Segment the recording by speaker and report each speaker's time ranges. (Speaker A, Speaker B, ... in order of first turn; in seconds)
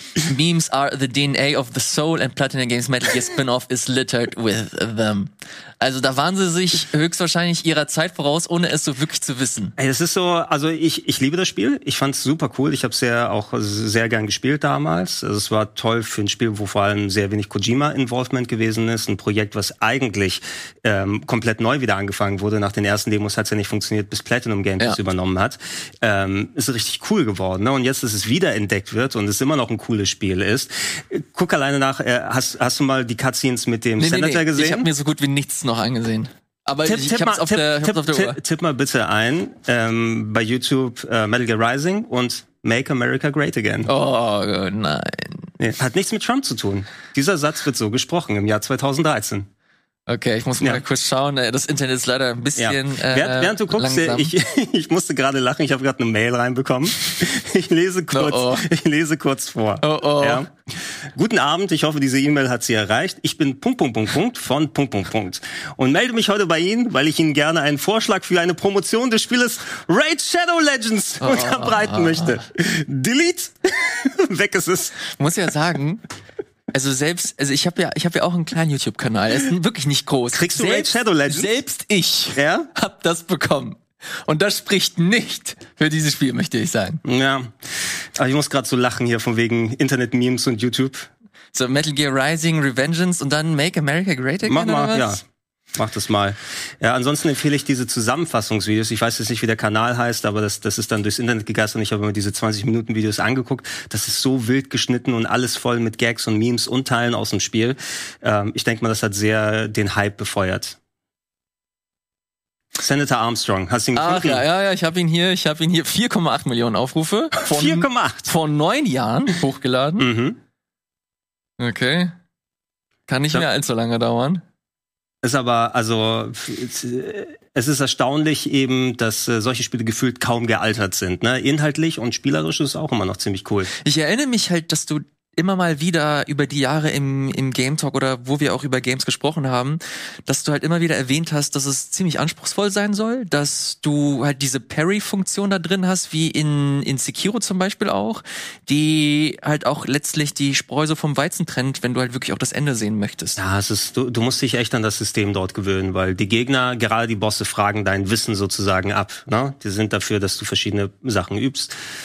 Speaker A: 0.2-9.8, 34.0-38.4, 43.9-45.5, 50.1-54.3, 58.1-58.7, 59.8-60.4, 71.2-72.4, 75.1-76.0, 76.7-87.0, 91.5-95.2, 113.9-120.1, 121.6-122.1, 123.1-124.4, 133.8-153.4
Speaker B: 9.8-34.9, 36.9-43.9, 45.6-49.5, 52.6-75.0, 80.3-81.5, 82.4-82.7, 87.0-91.1, 94.5-95.2, 95.7-110.8, 112.8-114.4, 117.5-118.3, 120.0-120.4, 125.2-133.7, 153.4-161.7